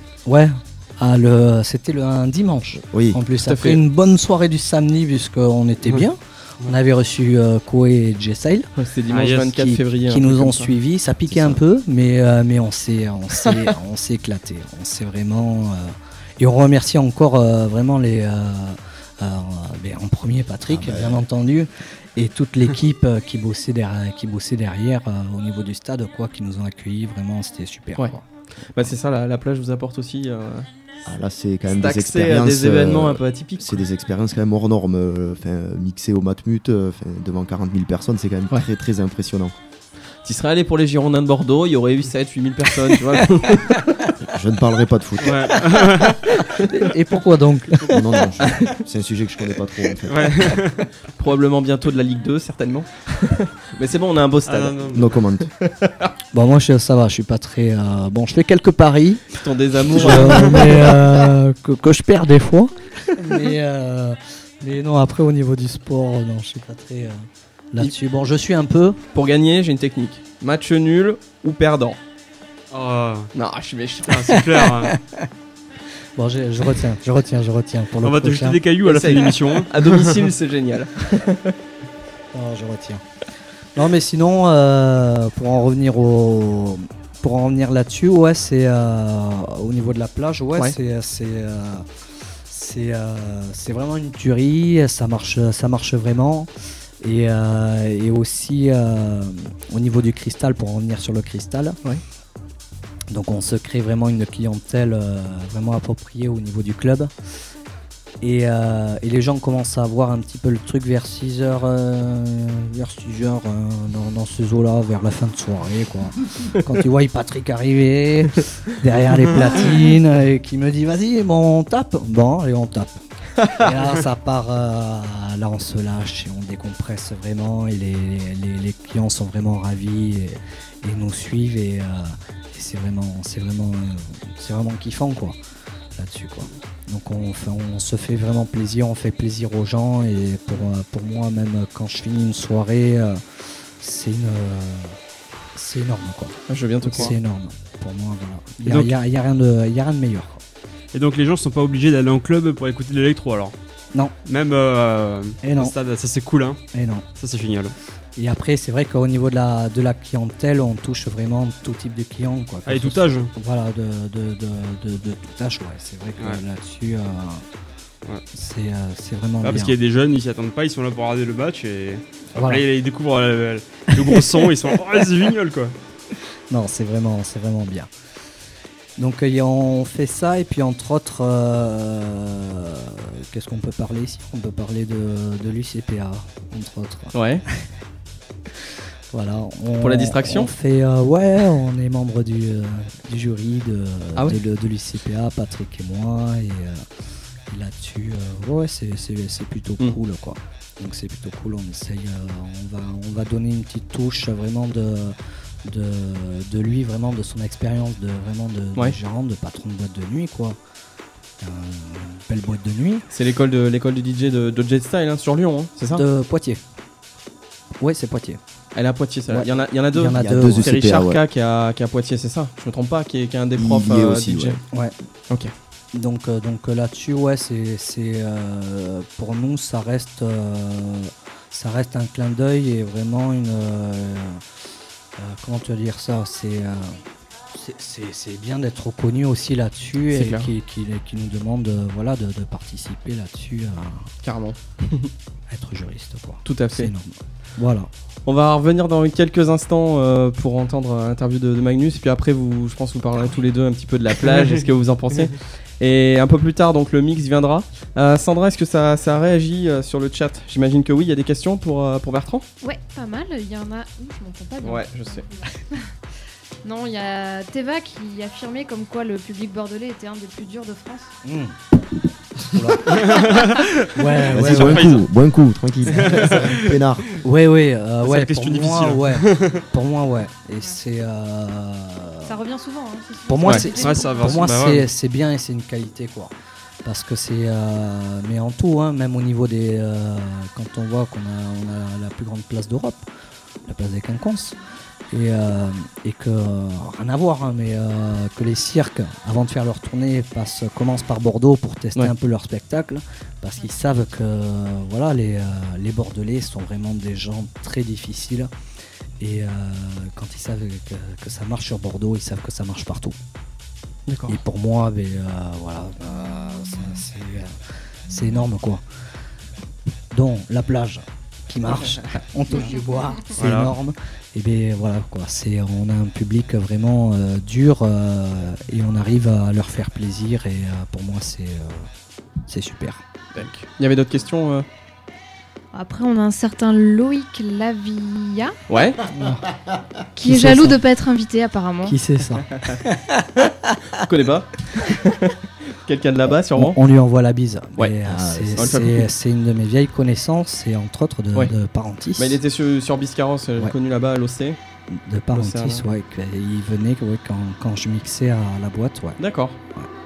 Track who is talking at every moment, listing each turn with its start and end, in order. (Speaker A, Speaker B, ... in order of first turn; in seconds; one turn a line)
Speaker A: 0.3-8.7
Speaker B: 2.8-3.2
Speaker C: 3.4-3.8
Speaker C: 8.8-10.7
Speaker D: 9.1-9.5
Speaker A: 9.3-28.2
Speaker B: 11.3-11.6
Speaker B: 20.7-21.2
Speaker C: 28.7-30.7
Speaker B: 31.1-39.5
Speaker C: 31.7-33.8
Speaker C: 40.2-44.1
Speaker B: 44.2-45.8
Speaker D: 45.2-46.2
Speaker C: 45.7-46.9
Speaker A: 46.5-48.7
Speaker B: 47.9-50.6
Speaker C: 48.4-48.7
Speaker D: 50.1-50.9
Speaker C: 51.1-56.1
Speaker D: 54.5-55.2
Speaker B: 54.9-55.5
Speaker A: 56.3-69.0
Speaker C: 59.4-61.2
Speaker C: 69.1-72.0
Speaker D: 72.7-73.3
Speaker C: 73.3-74.5
Speaker D: 74.1-75.0
Speaker A: 74.6-75.3
Speaker A: 76.2-78.6
Speaker D: 78.0-80.3
Speaker C: 78.8-81.6
Speaker A: 82.3-83.0
Speaker A: 83.8-91.9
Speaker A: 92.5-96.5
Speaker A: 97.0-101.8
Speaker A: 103.1-107.1
Speaker A: 108.2-135.4
Speaker C: 123.4-123.7
Speaker A: 135.9-145.0
Speaker A: 145.6-150.4
Speaker C: 146.5-147.2
Speaker D: 148.7-149.0
Speaker D: 150.9-153.5
Speaker D: 154.2-156.6
Speaker A: 155.4-155.8
Speaker A: 156.7-157.1
Speaker D: 157.2-157.8
Speaker A: 158.2-167.4
Speaker D: 162.7-163.3
Speaker A: 168.3-169.8
Speaker D: 169.4-175.8
Speaker A: 172.3-172.6
Speaker A: 173.9-174.5
Speaker A: 176.5-177.9
Speaker A: 179.0-187.7
Speaker C: 187.1-187.4
Speaker A: 189.1-196.9
Speaker C: 189.8-190.5
Speaker A: 197.5-210.6
Speaker A: 211.4-213.1
Speaker C: 213.1-216.1
Speaker A: 215.9-216.6
Speaker A: 217.8-218.4
Speaker C: 218.8-224.6
Speaker A: 219.3-220.8
Speaker B: 220.2-221.2
Speaker B: 223.6-224.6
Speaker A: 225.9-234.4
Speaker A: 235.2-244.1
Speaker C: 240.1-240.5
Speaker C: 244.2-245.1
Speaker A: 245.5-247.9
Speaker C: 246.4-246.9
Speaker C: 248.3-262.5
Speaker E: 262.6-265.9
Speaker C: 264.6-265.3
Speaker E: 266.6-271.1
Speaker A: 271.2-273.4
Speaker D: 272.9-275.1
Speaker A: 273.9-275.0
Speaker B: 274.2-277.1
Speaker D: 275.9-277.0
Speaker A: 277.1-282.4
Speaker D: 278.0-279.7
Speaker E: 282.2-284.4
Speaker A: 283.3-293.1
Speaker D: 283.7-284.9
Speaker A: 293.7-294.6
Speaker A: 295.1-308.5
Speaker A: 309.2-313.2
Speaker C: 314.1-314.4
Speaker A: 314.3-318.8
Speaker A: 320.1-331.9
Speaker D: 323.4-323.7
Speaker A: 332.5-333.0
Speaker C: 333.4-334.7
Speaker E: 335.7-338.6
Speaker C: 338.7-339.1
Speaker A: 339.1-339.5
Speaker E: 340.2-342.0
Speaker A: 340.2-340.8
Speaker A: 341.8-344.0
Speaker C: 342.5-342.8
Speaker C: 344.0-346.8
Speaker A: 346.5-352.4
Speaker B: 348.1-348.8
Speaker C: 348.6-349.1
Speaker C: 352.2-354.6
Speaker A: 354.9-359.2
Speaker C: 355.3-355.9
Speaker C: 359.2-359.6